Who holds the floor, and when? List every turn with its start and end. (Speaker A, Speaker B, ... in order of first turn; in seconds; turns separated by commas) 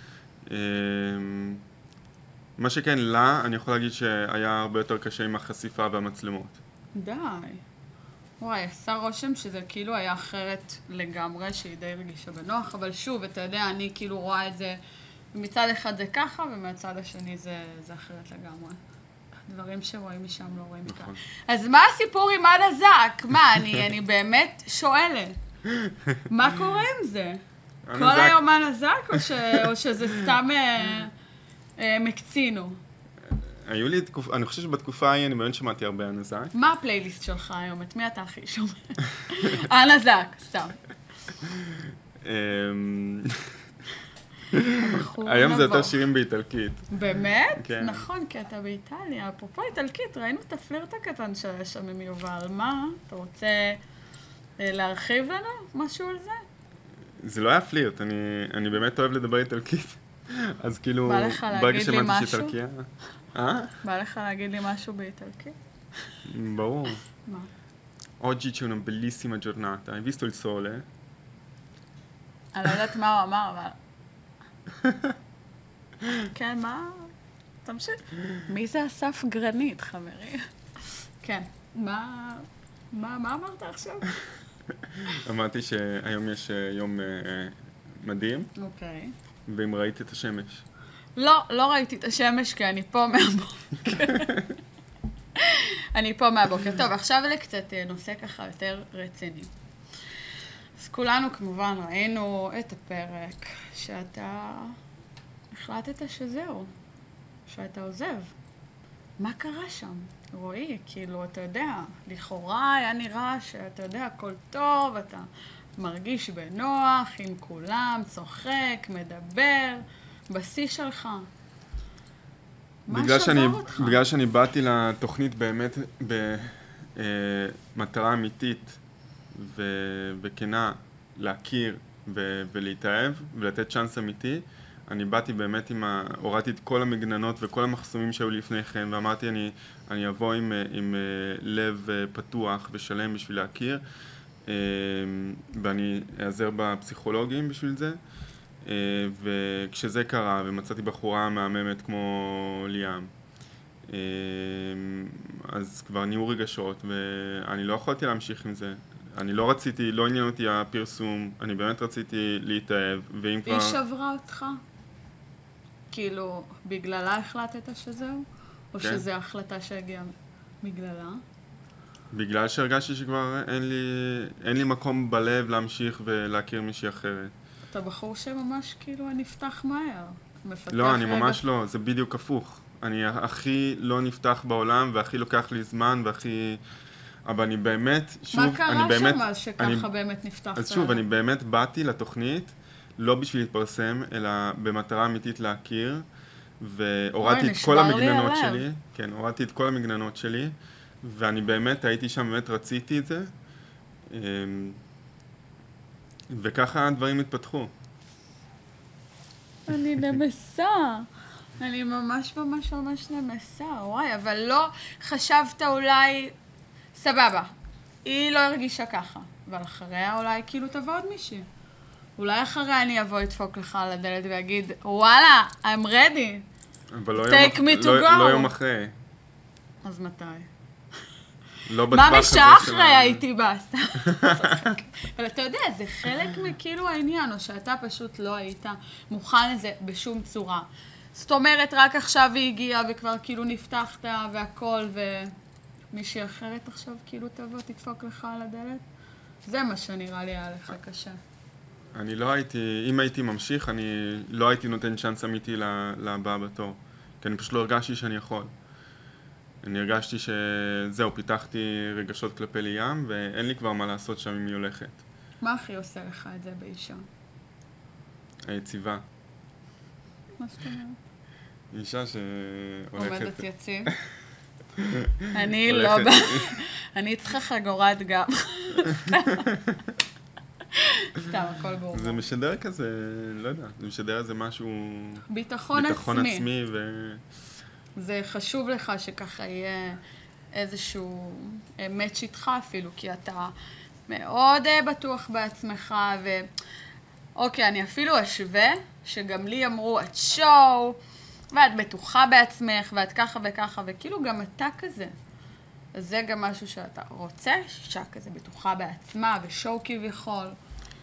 Speaker A: 0.5-1.6, Speaker A: 2.6-6.6, Speaker B: 6.9-7.6, Speaker B: 8.4-14.8, Speaker B: 15.3-18.8, Speaker B: 19.5-25.4, Speaker A: 20.9-21.2, Speaker B: 26.3-27.4, Speaker A: 27.9-28.4, Speaker B: 27.9-31.1, Speaker B: 31.8-32.8, Speaker A: 33.3-36.5, Speaker B: 36.5-40.8, Speaker A: 42.2-43.5, Speaker A: 44.5-46.9, Speaker B: 44.7-46.0, Speaker B: 46.9-53.8, Speaker A: 47.6-48.0, Speaker B: 54.6-56.4, Speaker A: 57.2-63.8, Speaker B: 61.0-62.5, Speaker B: 63.8-65.5, Speaker A: 66.2-67.0, Speaker A: 68.2-70.9, Speaker B: 72.5-73.8, Speaker B: 76.3-77.1, Speaker B: 77.6-84.1, Speaker A: 85.0-88.5, Speaker B: 88.5-89.1, Speaker A: 89.5-90.6, Speaker B: 91.2-94.5, Speaker B: 95.3-99.5, Speaker B: 100.8-104.8, Speaker B: 105.5-106.7, Speaker B: 107.5-108.3, Speaker B: 109.2-115.3, Speaker B: 115.8-121.3, Speaker B: 122.9-124.0, Speaker A: 122.9-128.8, Speaker A: 129.3-143.8, Speaker A: 144.4-148.0, Speaker A: 148.6-153.1, Speaker A: 153.9-163.8, Speaker B: 163.4-164.6, Speaker B: 165.9-171.2, Speaker A: 172.1-177.3, Speaker B: 177.7-181.4, Speaker A: 180.7-186.6, Speaker A: 187.2-189.9, Speaker B: 188.3-191.0, Speaker A: 190.5-196.0, Speaker A: 196.6-203.3, Speaker B: 197.2-198.6, Speaker A: 204.1-204.8, Speaker A: 206.3-207.7, Speaker B: 209.7-211.1, Speaker B: 211.6-216.3, Speaker B: 216.9-217.5, Speaker B: 218.0-221.5, Speaker B: 222.2-226.4, Speaker A: 226.9-228.9, Speaker B: 227.2-228.5, Speaker B: 229.8-230.5, Speaker A: 231.7-233.2, Speaker B: 231.9-245.3, Speaker A: 234.1-234.7, Speaker B: 245.9-248.8, Speaker B: 249.4-251.2, Speaker A: 251.9-258.5, Speaker A: 259.6-265.0, Speaker B: 265.4-267.0, Speaker A: 268.4-269.0, Speaker B: 270.4-271.0, Speaker A: 271.7-273.9, Speaker B: 273.0-273.9, Speaker A: 274.8-276.6, Speaker B: 275.3-279.5, Speaker B: 280.7-282.2, Speaker A: 281.9-287.2, Speaker B: 285.3-286.5, Speaker B: 288.0-290.0, Speaker B: 290.5-293.5, Speaker B: 294.1-296.5, Speaker B: 297.4-301.0, Speaker B: 301.5-305.1, Speaker B: 305.9-310.6